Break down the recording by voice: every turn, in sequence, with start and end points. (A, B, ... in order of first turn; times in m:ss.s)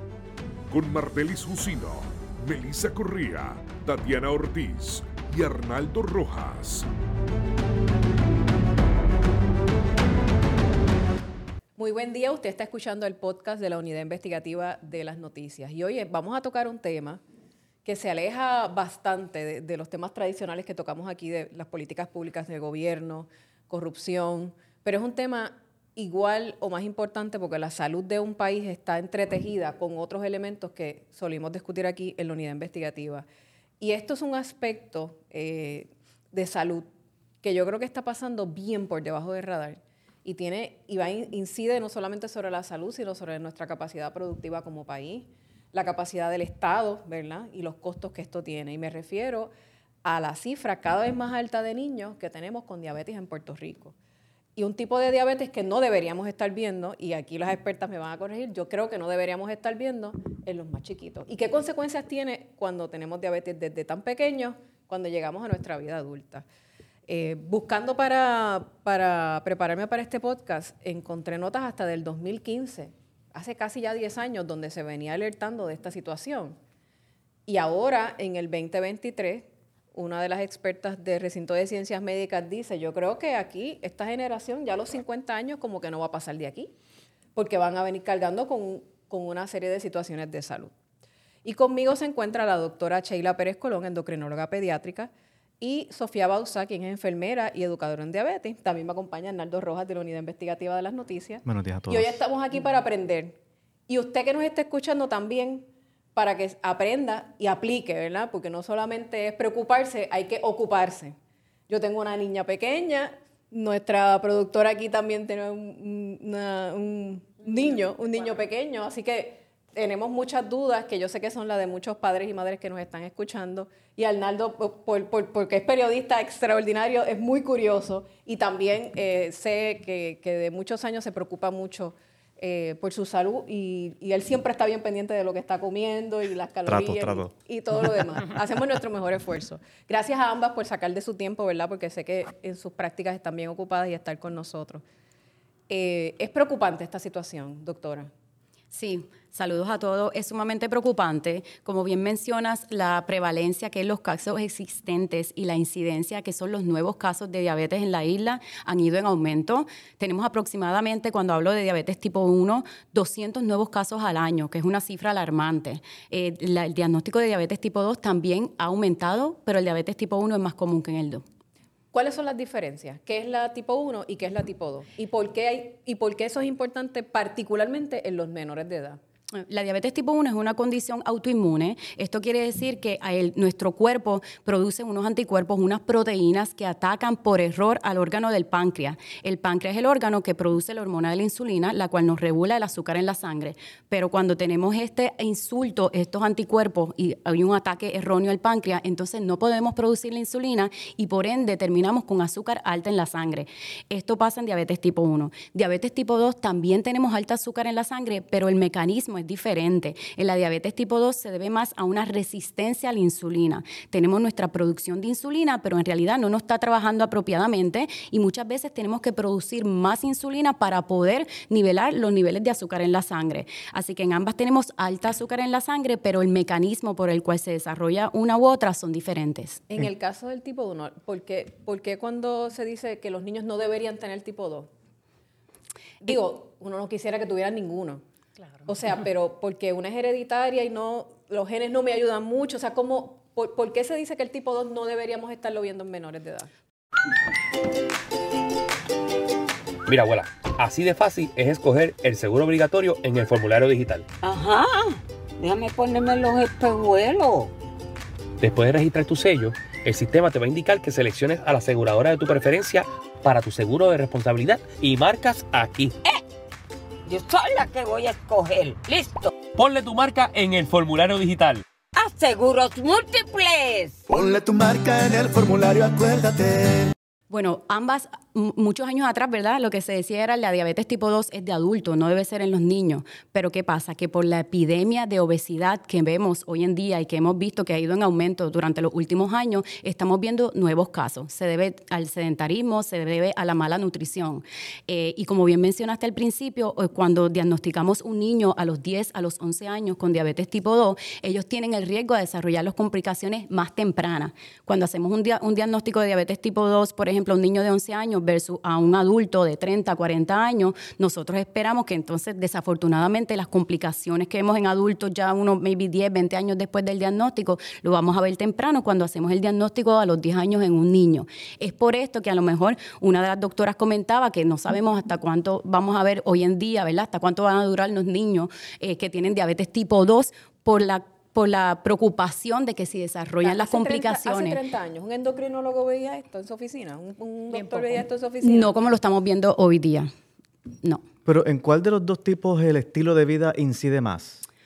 0:00.7-0:06.9 A
0:11.8-0:17.2 B
0:17.8-0:33.2 B
0:33.8-0:36.9 B
0:37.4-0:49.5 B
0:50.0-0:53.9 B
0:54.6-1:06.4 B
1:07.1-1:16.6 B
1:17.5-1:26.7 B
1:27.4-1:30.7 B
1:31.4-1:51.2 B
1:41.4-1:42.2 C
1:51.7-2:24.8 B
2:16.6-2:17.3 C
2:25.7-2:28.1 B
2:28.7-2:51.2 D
2:51.9-2:59.0 B
2:59.3-3:49.6 D
3:49.7-3:54.7 B
3:56.0-3:58.0 B
3:58.6-4:06.5 B
4:09.8-4:14.0 E
4:14.2-4:17.5 F
4:18.4-4:26.0 E
4:27.1-4:29.3 F
4:29.5-4:31.6 E
4:31.9-4:34.0 F
4:34.1-4:36.9 G
4:37.3-5:34.6 D
5:33.4-5:38.7 B
5:37.5-5:40.1 D
5:41.2-5:44.4 C